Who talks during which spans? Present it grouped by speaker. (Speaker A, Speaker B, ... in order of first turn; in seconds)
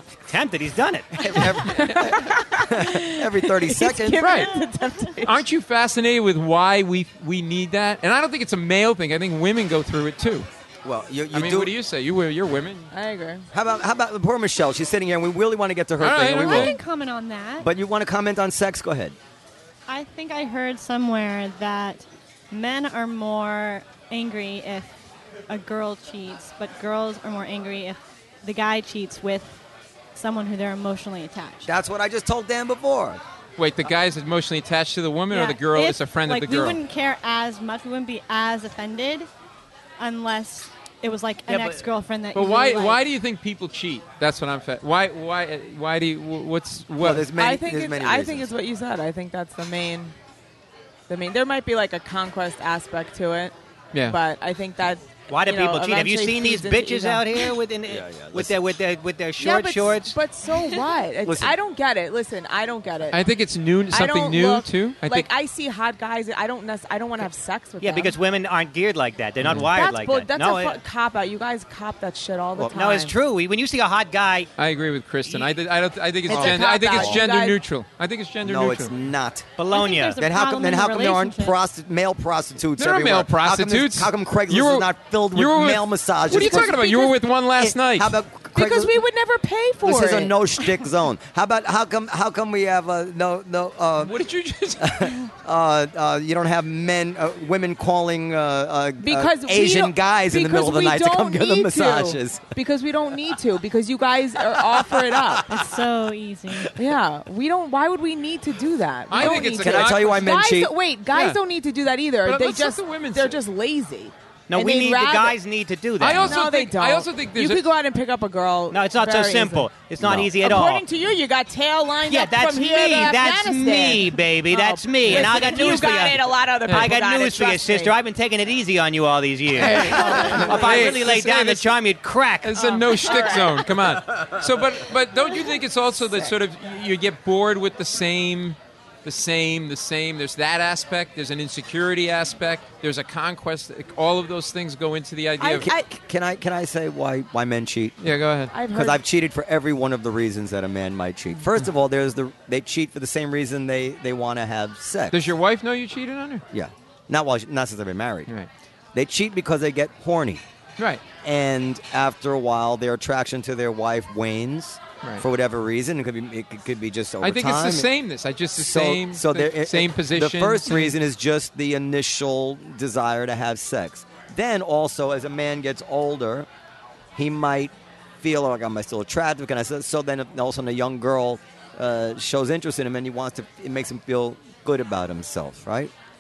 Speaker A: 0.3-1.4, 55.3-60.2, 67.8-70.8, 72.7-74.5, 79.6-80.2, 114.5-116.4, 118.7-120.8, 122.1-132.7
Speaker B: 1.1-4.2, 10.8-11.7, 13.5-16.8, 17.6-19.2, 31.7-33.2, 41.5-41.8, 47.0-48.5, 57.9-58.6, 61.2-61.5, 76.3-77.2, 78.4-79.5, 80.2-87.0, 87.6-89.0, 89.8-94.2, 94.8-102.4, 104.9-105.7, 109.2-110.7, 120.0-120.3, 145.5-148.0, 148.7-155.3, 156.5-158.3, 158.9-160.4, 161.2-167.9, 168.6-176.5, 177.2-185.9
Speaker C: 1.7-2.2, 4.2-4.6, 5.2-10.5, 11.3-12.9, 16.0-16.8, 33.6-36.8, 42.3-47.3, 53.9-54.2, 63.1-65.3, 74.6-78.9, 82.8-88.2, 94.0-95.2, 109.1-110.3, 111.1-111.4, 112.2-113.4, 116.0-117.6, 125.1-125.3, 126.7-126.9, 129.5-131.8, 132.4-145.7, 148.0-148.5, 155.1-156.4, 160.8-161.0, 167.2-171.0
Speaker D: 1.7-5.4, 12.9-13.5, 47.4-50.1, 51.1-53.5, 54.1-57.5, 59.4-63.2, 63.9-68.2, 69.5-73.2, 76.3-77.6, 86.3-87.1, 88.6-90.3, 99.0-105.5, 106.8-115.4, 116.2-119.7, 120.4-128.0, 129.8-130.9, 132.6-133.8, 145.4-145.9, 148.5-149.0
Speaker E: 16.4-17.7, 19.9-25.0, 25.5-29.6, 30.1-31.7, 35.3-39.3, 40.0-43.0, 79.7-81.6, 105.5-106.7